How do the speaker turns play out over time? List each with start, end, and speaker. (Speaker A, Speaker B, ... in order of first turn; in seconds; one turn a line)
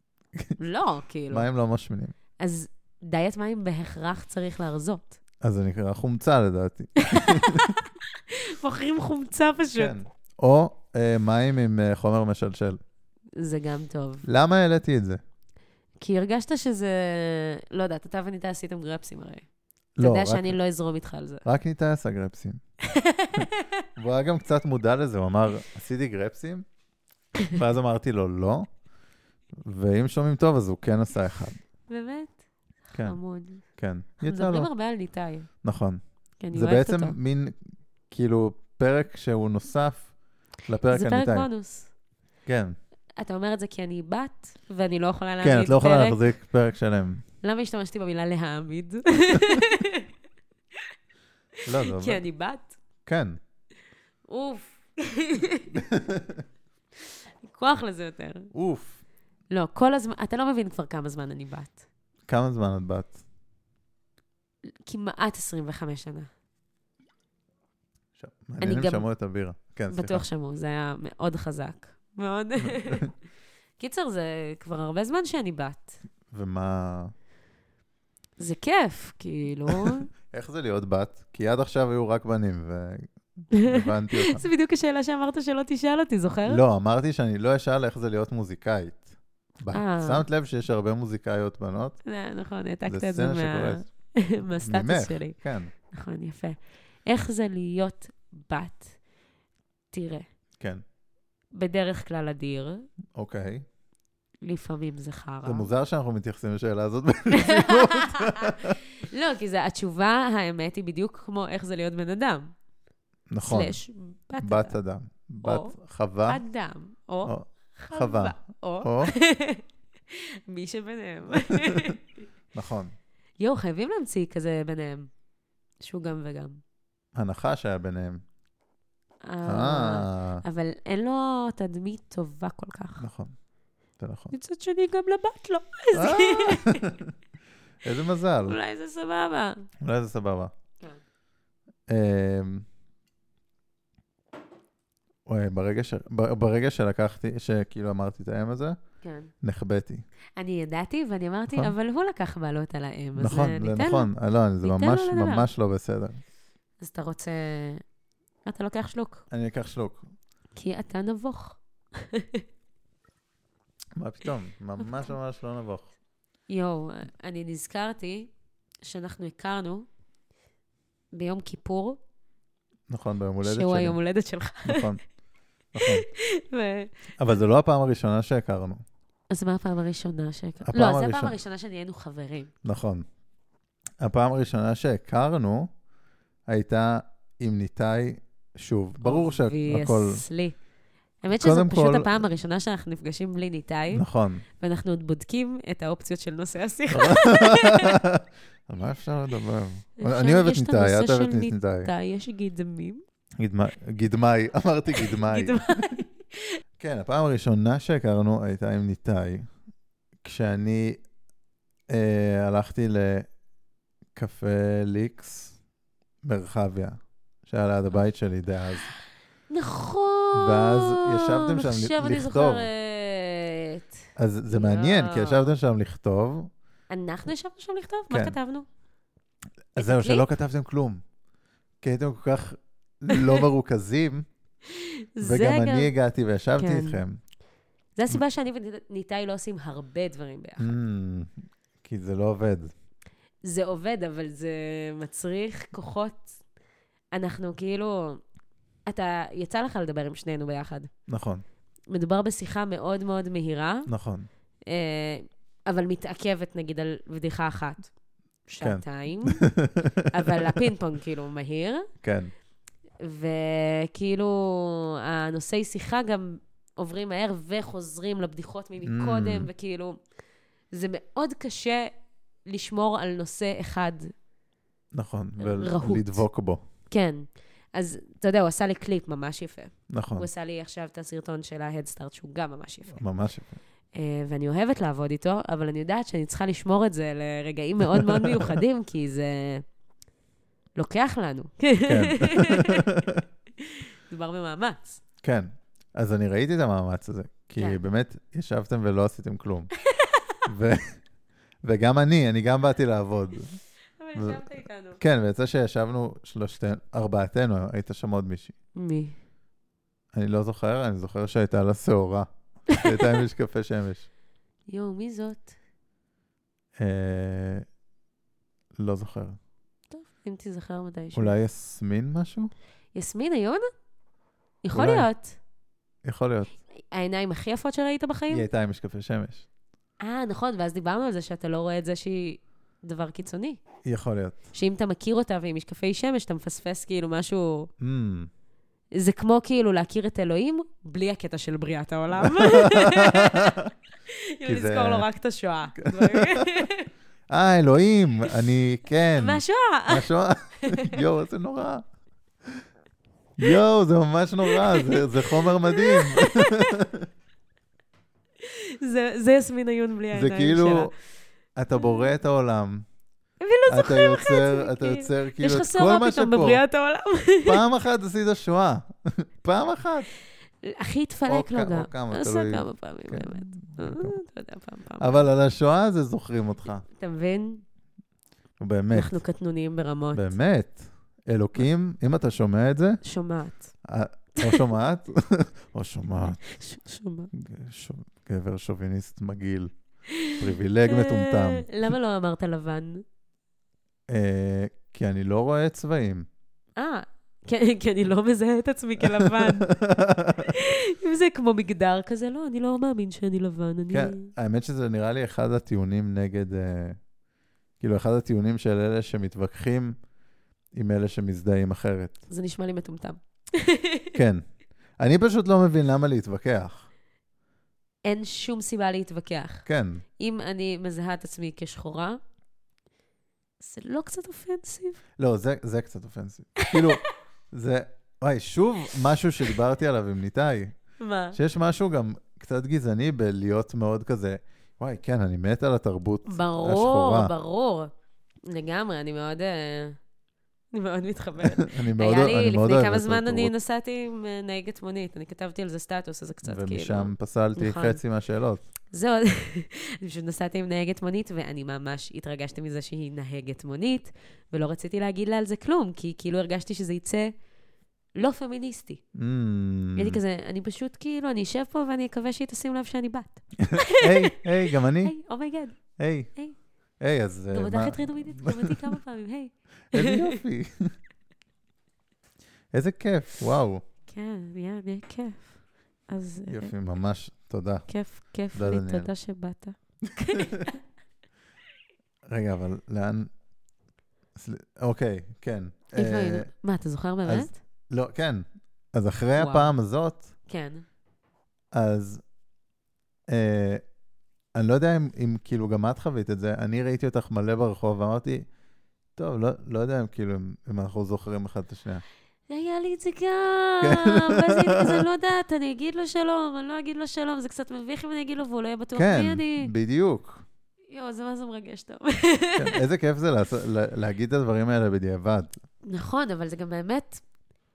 Speaker A: 0.6-1.5
Speaker B: 1.3-2.1
Speaker A: 2.4-5.2
Speaker B: 5.4-7.8
Speaker A: 7.0-10.0
Speaker B: 9.8-12.8
Speaker A: 13.4-14.3
Speaker B: 14.2-15.2
Speaker A: 16.0-19.4
Speaker B: 20.0-20.6
Speaker A: 20.0-21.4
Speaker B: 21.4-22.6
Speaker A: 22.8-23.9
Speaker B: 23.4-26.6
Speaker B: 27.5-28.7
Speaker B: 29.6-31.6
Speaker A: 31.9-33.6
Speaker B: 32.9-34.7
Speaker A: 34.2-35.5
Speaker B: 35.6-36.0
Speaker A: 36.4-37.1
Speaker B: 36.5-37.6
Speaker B: 38.1-40.1
Speaker B: 40.7-41.5
Speaker A: 40.9-41.9
Speaker B: 42.5-42.8
Speaker A: 43.2-46.2
Speaker B: 45.4-47.2
Speaker A: 47.4-50.1
Speaker B: 51.7-52.2
Speaker A: 51.8-52.8
Speaker B: 53.1-53.4
Speaker A: 54.3-55.8
Speaker B: 55.7-56.4
Speaker A: 57.5-58.5
Speaker B: 58.5-59.0
Speaker A: 59.5-61.8
Speaker B: 62.3-63.2
Speaker A: 64.9-66.3
Speaker B: 68.2-70.2
Speaker A: 68.6-69.1
Speaker A: 69.9-73.1
Speaker B: 72.7-73.1
Speaker A: 73.8-76.0
Speaker B: 76.3-77.1
Speaker A: 78.4-80.1
Speaker B: 79.7-84.5
Speaker A: 83.5-86.6
Speaker B: 86.5-92.0
Speaker A: 89.7-90.2
Speaker A: 92.0-95.4
Speaker B: 92.9-93.9
Speaker B: 94.6-95.7
Speaker A: 95.9-99.0
Speaker A: 99.9-100.3
Speaker A: 101.5-102.9
Speaker B: 103.2-103.7
Speaker A: 104.4-105.7
Speaker B: 105.5-108.8
Speaker A: 107.3-112.5
Speaker B: 113.3-113.8
Speaker A: 113.4-114.8
Speaker B: 114.4-116.4
Speaker A: 115.4-115.8
Speaker A: 116.3-122.0
Speaker B: 117.2-119.1
Speaker B: 121.4-122.0
Speaker B: 122.5-122.9
Speaker A: 123.4-125.1
Speaker A: 125.8-126.6
Speaker B: 127.2-128.2
Speaker A: 129.2-133.1
Speaker B: 129.5-130.4
Speaker B: 133.0-133.3
Speaker B: 134.0-134.3
Speaker A: 134.3-136.9
Speaker B: 135.9-137.1
Speaker B: 137.8-138.6
Speaker A: 138.4-139.7
Speaker B: 139.8-140.5
Speaker B: 141.9-142.7
Speaker B: 145.3-148.8
Speaker A: 149.0-149.3
Speaker B: 149.4-150.0
Speaker A: 150.4-154.1
Speaker B: 153.2-156.2
Speaker A: 154.6-155.5
Speaker A: 156.8-157.8
Speaker A: 158.5-159.2
Speaker B: 159.3-160.1
Speaker A: 160.6-162.4
Speaker B: 164.0-165.9
Speaker A: 166.5-168.3
Speaker A: 168.8-169.9
Speaker A: 171.1-172.0
Speaker B: 172.9-174.0
Speaker A: 173.4-174.9
Speaker B: 174.7-175.0
Speaker B: 175.8-176.1
Speaker A: 175.8-176.9
Speaker B: 177.2-178.8
Speaker A: 179.3-182.5
Speaker B: 180.6-181.3
Speaker B: 182.7-183.1
Speaker B: 184.0-185.7
Speaker B: 186.5-190.2
Speaker A: 189.0-190.6
Speaker A: 191.2-194.1
Speaker B: 191.3-192.2
Speaker B: 193.9-194.4
Speaker A: 194.6-198.0
Speaker B: 196.9-201.9
Speaker A: 200.0-203.0
Speaker B: 203.4-205.9
Speaker A: 204.9-206.6
Speaker B: 206.8-209.5
Speaker B: 210.2-211.0
Speaker B: 211.9-213.3
Speaker B: 214.2-215.6
Speaker B: 216.2-218.9
Speaker A: 219.5-224.0
Speaker B: 220.3-222.7
Speaker B: 224.2-226.5
Speaker A: 224.5-225.5
Speaker A: 226.9-228.7
Speaker B: 228.1-228.4
Speaker B: 229.8-231.0
Speaker A: 229.8-230.2
Speaker B: 231.8-234.3
Speaker A: 234.7-235.9
Speaker B: 235.2-237.2
Speaker A: 236.6-237.0
Speaker A: 238.0-240.8
Speaker B: 240.6-242.7
Speaker A: 243.4-246.4
Speaker A: 247.1-248.2
Speaker A: 248.9-250.9
Speaker B: 251.1-251.4
Speaker A: 251.9-253.9
Speaker B: 253.9-254.3
Speaker A: 254.7-257.9
Speaker A: 258.5-259.4
Speaker B: 258.6-260.3
Speaker A: 260.1-261.9
Speaker B: 262.0-262.3
Speaker A: 263.0-270.0
Speaker B: 268.8-269.5
Speaker A: 270.7-271.9
Speaker A: 272.5-274.1
Speaker B: 274.9-276.6
Speaker A: 275.4-276.2
Speaker A: 276.9-283.0
Speaker B: 279.9-280.3
Speaker B: 282.9-283.6
Speaker A: 283.9-289.6
Speaker B: 287.9-288.6
Speaker A: 290.8-293.1
Speaker B: 291.9-293.2
Speaker A: 293.6-295.0
Speaker B: 295.2-299.7
Speaker A: 299.9-300.4
Speaker B: 300.5-301.0
Speaker B: 301.6-303.6
Speaker A: 304.0-305.0
Speaker B: 304.2-304.4
Speaker B: 305.0-308.5
Speaker A: 308.8-309.2
Speaker B: 310.1-314.1
Speaker A: 312.7-313.1
Speaker A: 314.7-315.5
Speaker B: 316.8-317.6
Speaker B: 318.8-319.4
Speaker A: 319.9-321.3
Speaker B: 321.1-322.5
Speaker A: 322.9-323.7
Speaker A: 324.6-325.4
Speaker B: 324.7-325.1
Speaker B: 326.1-326.5
Speaker A: 326.8-328.4
Speaker B: 328.3-329.5
Speaker A: 330.0-333.6
Speaker B: 333.9-334.4
Speaker A: 334.5-337.7
Speaker B: 337.8-338.3
Speaker A: 338.9-343.7
Speaker B: 342.2-343.7
Speaker A: 344.4-346.9
Speaker B: 344.4-345.1
Speaker B: 345.8-346.7
Speaker B: 347.3-351.9
Speaker A: 349.2-350.1
Speaker A: 350.7-351.0
Speaker B: 353.4-357.1
Speaker A: 354.5-356.8
Speaker A: 358.4-360.9
Speaker B: 360.1-360.9
Speaker B: 361.6-362.9
Speaker A: 361.8-362.1
Speaker A: 363.4-367.6
Speaker B: 363.7-366.6
Speaker B: 367.4-370.1
Speaker A: 370.6-375.2
Speaker B: 371.3-374.2
Speaker B: 375.0-376.8
Speaker A: 376.9-377.6
Speaker B: 378.6-379.2
Speaker A: 378.9-380.3
Speaker B: 380.1-383.0
Speaker A: 383.0-383.7
Speaker B: 383.9-386.4
Speaker A: 384.4-384.7
Speaker A: 386.2-387.3
Speaker B: 387.3-389.7
Speaker A: 390.1-393.0
Speaker B: 390.3-391.7
Speaker B: 394.1-396.3
Speaker A: 396.8-399.8
Speaker B: 399.0-400.6
Speaker A: 400.4-404.3
Speaker B: 403.9-407.0
Speaker B: 407.8-410.0
Speaker B: 410.8-412.2
Speaker A: 412.3-414.1
Speaker B: 414.1-414.4
Speaker B: 415.0-416.9
Speaker A: 418.1-419.6
Speaker B: 419.7-420.0
Speaker A: 420.2-422.2
Speaker A: 423.6-425.0
Speaker B: 425.2-427.0
Speaker A: 426.6-427.1
Speaker B: 427.5-430.8
Speaker A: 431.0-431.4
Speaker B: 431.3-437.3
Speaker A: 436.3-437.9
Speaker A: 438.5-440.0
Speaker A: 440.7-448.0
Speaker B: 441.4-443.5
Speaker B: 446.4-448.6
Speaker A: 448.9-457.3
Speaker A: 458.1-459.0
Speaker B: 459.1-460.2
Speaker A: 460.0-465.8
Speaker B: 463.6-465.1
Speaker B: 466.0-466.3
Speaker B: 467.0-469.0
Speaker A: 467.5-470.4
Speaker B: 469.9-470.9
Speaker B: 472.7-473.8
Speaker A: 474.1-475.5
Speaker A: 476.1-476.7
Speaker B: 476.5-477.9
Speaker A: 477.9-480.8
Speaker B: 478.5-479.1
Speaker B: 480.3-480.7
Speaker B: 482.3-483.3
Speaker B: 484.4-486.5
Speaker A: 485.9-487.6
Speaker B: 487.2-490.3
Speaker A: 489.4-489.7
Speaker A: 490.5-490.8
Speaker B: 491.7-492.2
Speaker B: 493.3-493.8
Speaker B: 494.6-498.5
Speaker B: 499.2-502.0
Speaker A: 502.5-509.7
Speaker B: 503.8-505.1
Speaker B: 509.0-510.4
Speaker A: 510.9-512.8
Speaker B: 512.6-515.6
Speaker A: 515.8-517.2